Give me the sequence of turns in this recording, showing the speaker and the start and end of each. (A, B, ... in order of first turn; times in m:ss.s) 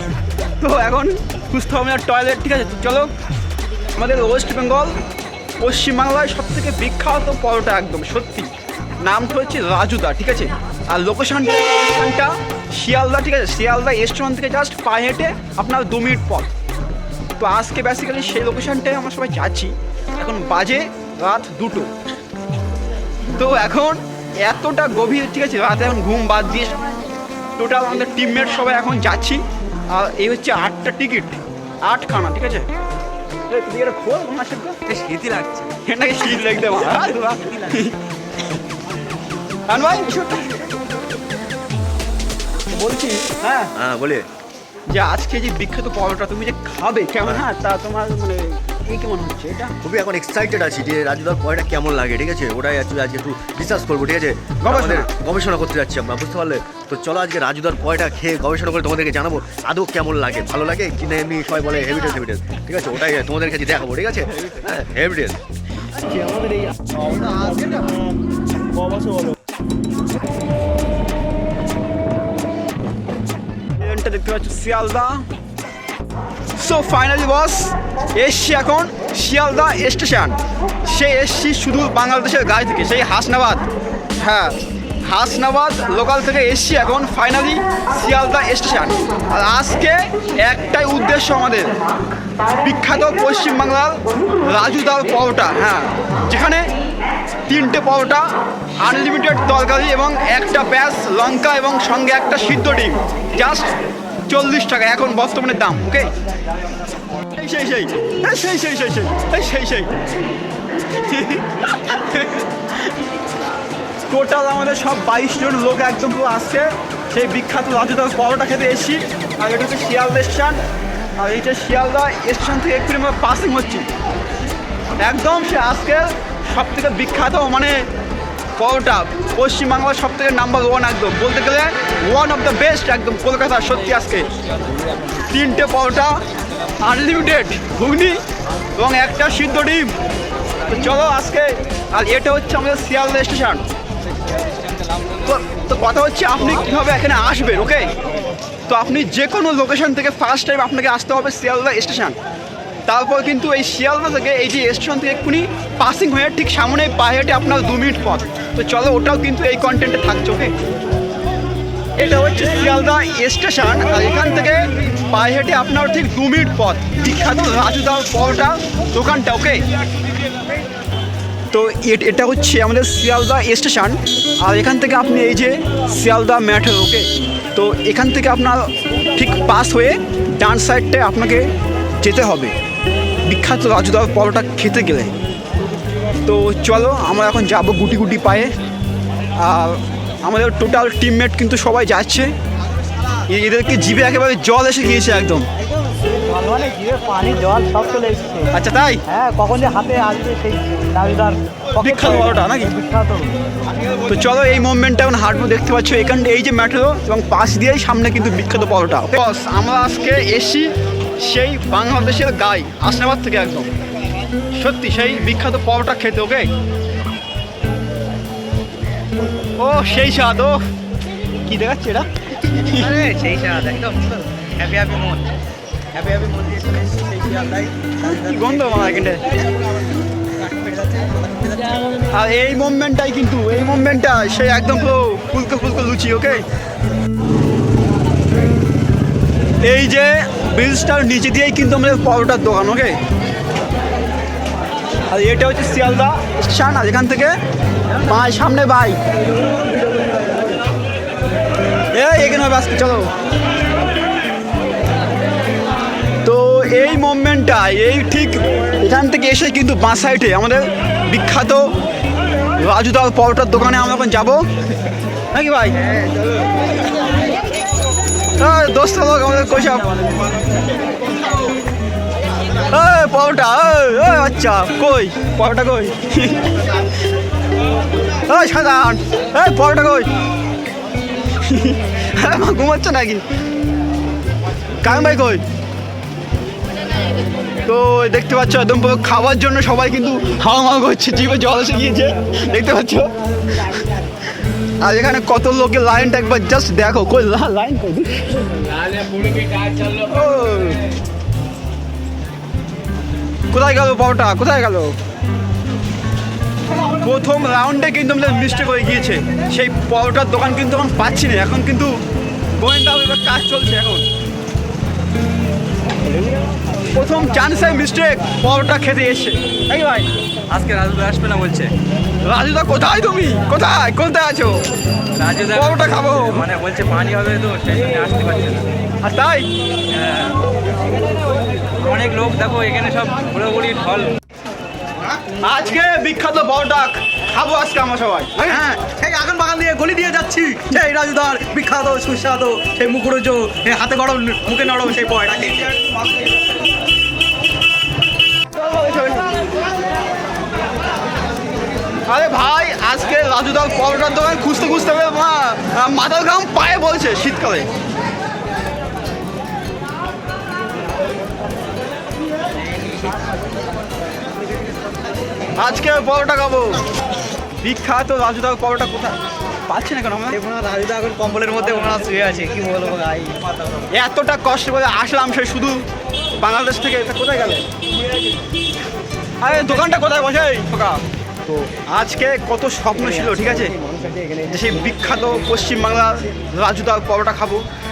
0:00.6-0:03.1 A
0:03.9-0:05.0 A
0:05.6-0:16.5 A
0:17.4-0:21.9 A
0:23.4-0:26.8 A
0:27.6-0:32.7 A
0:33.5-0:34.8 A
0:34.9-0:35.7 B
0:35.8-0:38.0 A
0:39.7-0:40.6 A
0:42.7-0:43.7 A
0:43.8-0:44.2 C
0:44.9-0:49.7 A
0:49.8-1:05.4 C
0:54.6-0:55.1 A
1:13.8-1:15.2 A
1:16.6-1:23.6 A
1:24.2-1:31.8 A
1:32.5-1:36.7 A
1:37.5-1:43.7 A
1:44.3-1:46.1 A
1:47.3-1:49.9 A
1:51.0-1:52.5 A
1:54.1-2:00.6 A
2:01.2-2:03.9 A
2:05.0-2:07.9 A
2:08.6-2:14.3 A
2:15.3-2:16.2 A
2:16.8-2:18.2 A
2:18.8-2:20.0 A
2:20.7-2:23.6 A
2:25.2-2:27.9 A
2:28.7-2:32.2 A
2:32.9-2:40.5 A
2:42.0-2:49.6 A
2:51.5-3:02.5 A
3:03.3-3:05.1 A
3:06.2-3:08.5 A
3:09.4-3:12.3 A
3:13.3-3:15.5 A
3:16.3-3:18.5 D
3:18.5-3:19.0 A
3:21.8-3:22.8 A
3:22.0-3:23.3 D
3:24.1-3:33.7 A
3:34.5-3:36.5 A
3:39.6-3:40.6 A
3:41.4-3:43.1 A
3:43.2-3:44.1 D
3:47.0-3:47.7 D
3:48.0-3:49.2 A
3:52.1-3:56.4 A
3:59.6-4:03.0 A
4:05.1-4:07.4 A
4:08.0-4:09.0 A
4:11.9-4:13.1 A
4:16.2-4:21.7 A
4:22.6-4:24.4 A
4:25.3-4:26.0 A
4:28.4-4:30.3 A
4:32.6-4:36.7 A
4:38.2-4:40.1 A
4:41.4-4:43.2 A
4:44.8-4:45.4 A
4:47.6-4:53.1 A
4:54.8-4:58.6 A
4:59.6-4:59.9 B
4:59.9-5:00.8 A
5:03.5-5:05.0 A
5:07.0-5:12.0 A
5:12.5-5:14.0 A
5:16.9-5:20.1 A
5:20.5-5:21.7 B
5:22.2-5:24.6 A
5:25.2-5:28.7 B
5:25.5-5:26.4 A
5:29.0-5:29.5 A
5:30.0-5:30.3 B
5:31.8-5:34.1 B
5:35.4-5:38.9 A
5:48.5-5:49.5 A
5:52.1-5:57.7 A
6:05.6-6:06.9 A
6:07.6-6:10.4 A
6:10.4-6:13.3 D
6:13.9-6:15.8 A
6:16.4-6:17.7 A
6:19.4-6:21.0 A
6:21.9-6:23.8 A
6:23.4-6:24.4 C
6:24.5-6:27.6 A